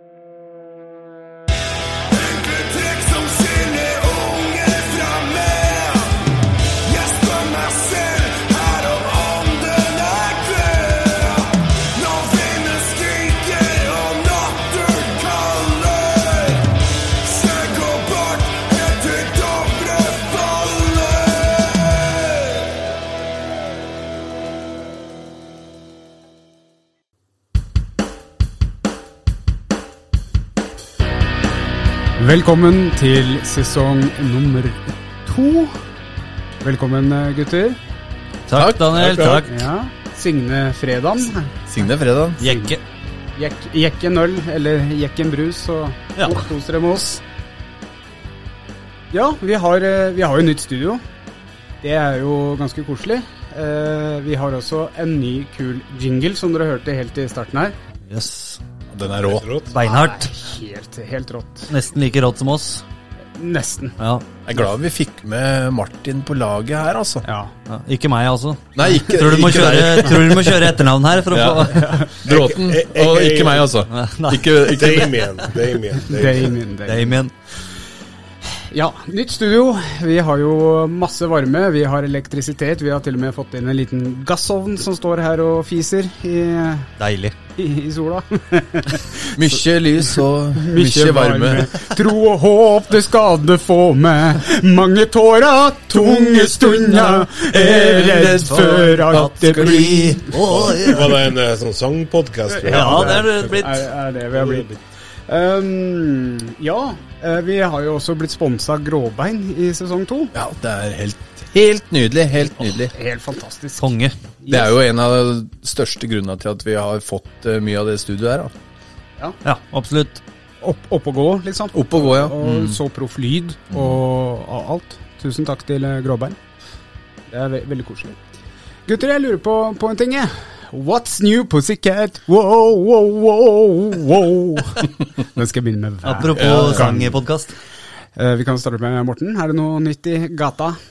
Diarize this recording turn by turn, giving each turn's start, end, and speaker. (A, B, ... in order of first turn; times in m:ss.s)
0:02.1-0:06.2 A
0:06.8-0:22.6 A
0:32.2-0:35.7 B
0:36.6-0:37.8 B
0:38.5-0:39.6 C
0:38.5-0:38.9 D
0:38.9-0:39.4 E
0:39.5-0:41.6 B
0:41.7-0:42.4 D
0:42.4-0:42.7 B
0:42.4-0:42.8 C
0:43.4-0:47.2 B
0:46.2-0:46.4 C
0:49.1-0:51.0 B
0:51.8-0:57.8 B
0:58.1-0:58.6 C
0:58.9-0:59.4 D
0:59.2-0:59.7 E
0:59.7-1:00.3 C
0:59.7-1:01.7 B
1:01.7-1:02.8 C
1:03.4-1:04.0 B
1:04.0-1:04.2 C
1:04.4-1:07.2 D
1:07.2-1:07.5 B
1:07.7-1:12.0 C
1:08.7-1:10.7 D
1:11.3-1:15.2 D
1:11.7-1:12.1 B
1:12.2-1:13.7 E
1:13.9-1:15.2 C
1:14.6-1:16.5 E
1:16.0-1:17.2 B
1:16.8-1:17.3 C
1:18.6-1:26.9 B
1:27.0-1:27.3 C
1:27.6-1:29.6 B
1:29.3-1:31.8 D
1:30.5-1:40.6 B
1:35.9-1:39.2 D
1:39.1-1:41.2 C
1:40.4-1:43.6 E
1:42.5-1:44.7 B
1:42.7-1:43.9 C
1:44.3-1:44.8 E
1:45.3-1:50.3 B
1:50.3-1:52.9 D
1:52.9-1:53.9 B
1:53.8-1:54.1 C
1:54.4-1:54.7 B
1:54.5-1:58.5 D
1:59.4-2:00.2 C
2:00.6-2:06.4 B
2:01.7-2:02.8 D
2:07.3-2:08.2 B
2:08.8-2:17.2 B
2:16.0-2:17.5 C
2:16.3-2:17.0 D
2:18.2-2:20.8 B